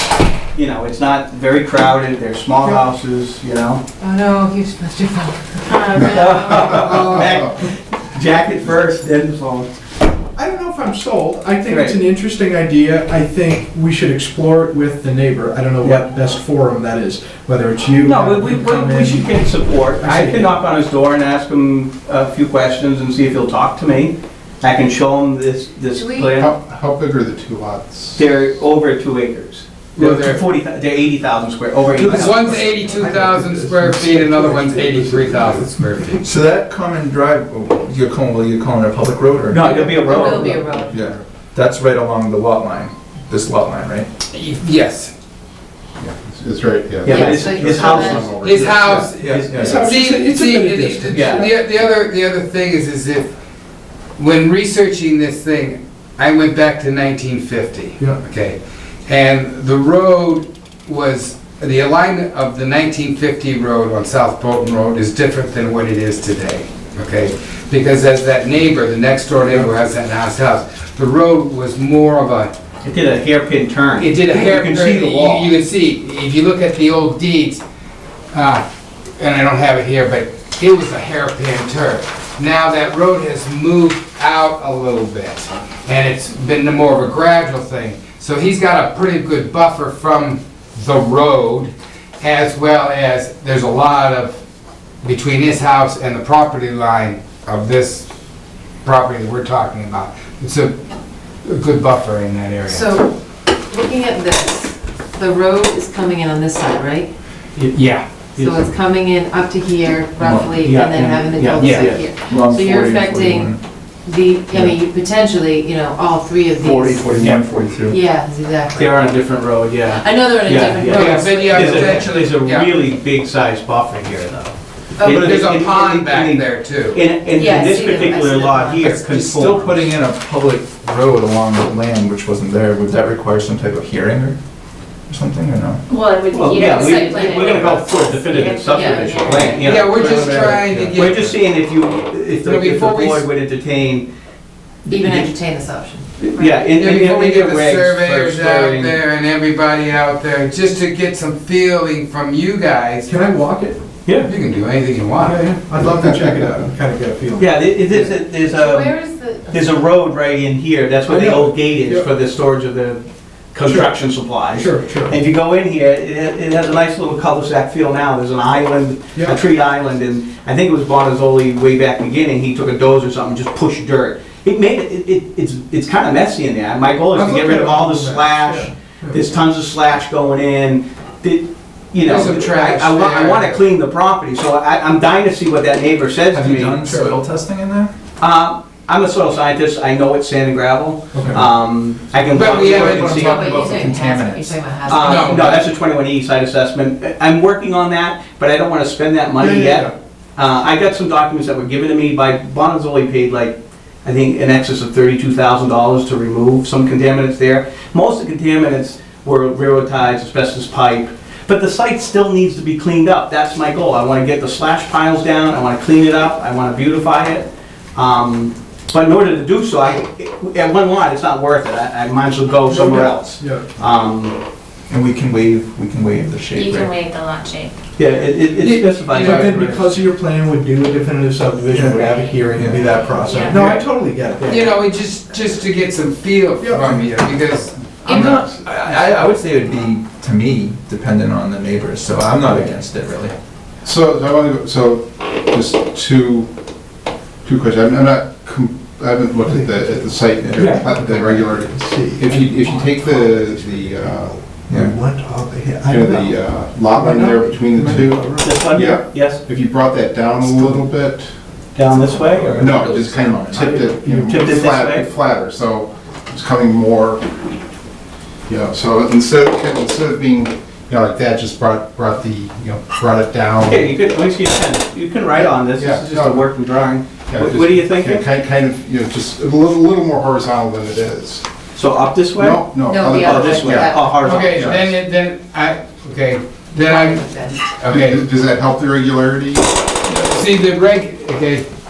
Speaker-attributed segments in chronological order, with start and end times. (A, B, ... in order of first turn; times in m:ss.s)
0:00.5-0:03.8 A
0:04.0-0:07.1 B
0:06.0-0:07.3 C
0:06.1-0:09.7 A
0:10.4-0:19.4 D
0:11.7-0:12.0 A
0:15.8-0:16.1 A
0:18.0-0:26.5 A
0:20.0-0:20.6 D
0:26.0-0:26.3 B
0:26.4-0:28.3 C
0:28.2-0:32.6 A
0:30.0-0:30.4 E
0:31.9-0:36.2 E
0:32.0-0:36.2 D
0:36.2-0:39.8 F
0:39.5-0:40.7 A
0:39.6-0:40.9 B
0:40.9-0:41.2 C
0:40.9-0:44.1 F
0:44.3-0:45.1 E
0:46.0-0:49.1 C
0:47.0-0:48.3 A
0:47.1-0:48.3 B
0:48.4-0:53.3 E
0:49.1-0:49.8 F
0:49.2-0:49.9 A
0:49.5-0:51.7 D
0:51.1-0:51.4 A
0:54.2-1:12.5 E
1:12.8-1:15.5 A
1:14.0-1:17.6 E
1:18.3-1:18.6 E
1:19.2-1:34.4 E
1:35.0-1:38.1 E
1:38.8-1:40.7 E
1:41.4-1:42.9 E
1:42.7-1:47.1 B
1:47.6-1:48.7 A
1:47.7-1:48.0 E
1:48.4-1:57.3 B
1:50.2-1:50.5 F
1:50.5-1:52.1 A
1:51.6-1:52.0 E
1:52.2-1:53.6 F
1:56.6-1:58.0 F
1:57.9-1:59.1 B
1:58.8-2:09.8 A
1:59.9-2:02.1 B
2:00.9-2:02.7 E
2:05.0-2:05.2 B
2:05.1-2:07.0 E
2:07.3-2:09.0 B
2:09.0-2:14.4 F
2:15.1-2:15.8 F
2:15.9-2:19.7 G
2:16.3-2:24.1 A
2:16.7-2:17.6 B
2:18.6-2:19.7 B
2:19.6-2:21.4 E
2:20.7-2:21.0 D
2:22.4-2:23.2 E
2:24.9-2:25.4 A
2:24.9-2:26.1 B
2:26.2-2:29.0 A
2:26.6-2:33.1 E
2:33.1-2:33.8 D
2:34.1-2:34.3 A
2:34.2-2:35.4 E
2:35.2-2:37.6 D
2:35.8-2:36.7 C
2:37.4-2:39.0 A
2:38.5-2:39.8 B
2:39.5-3:07.2 A
2:41.1-2:42.1 D
2:43.7-2:43.9 D
2:44.5-2:45.2 D
2:57.1-2:59.3 D
3:02.0-3:03.7 E
3:06.3-3:07.9 F
3:08.2-3:13.8 A
3:11.1-3:11.5 D
3:12.3-3:13.6 E
3:12.5-3:15.5 B
3:12.8-3:14.6 F
3:14.9-3:44.4 A
3:14.9-3:15.6 E
3:19.4-3:19.9 D
3:42.7-3:43.7 D
3:44.9-3:47.0 F
3:46.5-3:47.7 G
3:48.0-3:49.9 A
3:48.6-3:49.5 E
3:49.1-3:54.8 D
3:51.7-3:52.8 F
3:52.7-3:53.6 G
3:54.4-3:59.0 E
3:56.6-3:57.0 D
3:58.0-4:03.3 F
4:03.8-4:06.5 C
4:07.4-4:14.4 C
4:09.5-4:18.9 D
4:10.4-4:10.8 F
4:14.7-4:14.9 F
4:15.8-4:21.3 C
4:18.4-4:19.4 A
4:20.4-4:20.9 D
4:21.8-4:22.8 A
4:22.0-4:23.8 F
4:22.6-4:24.5 D
4:22.6-4:27.2 C
4:24.2-4:25.1 A
4:28.5-4:33.9 C
4:33.6-4:38.3 A
4:35.4-4:36.5 C
4:37.3-4:41.5 C
4:41.8-4:44.7 A
4:42.4-4:44.0 C
4:42.8-4:44.3 B
4:44.2-4:48.2 E
4:44.5-4:45.0 C
4:46.8-4:47.6 B
4:47.9-4:49.7 C
4:50.1-4:51.7 E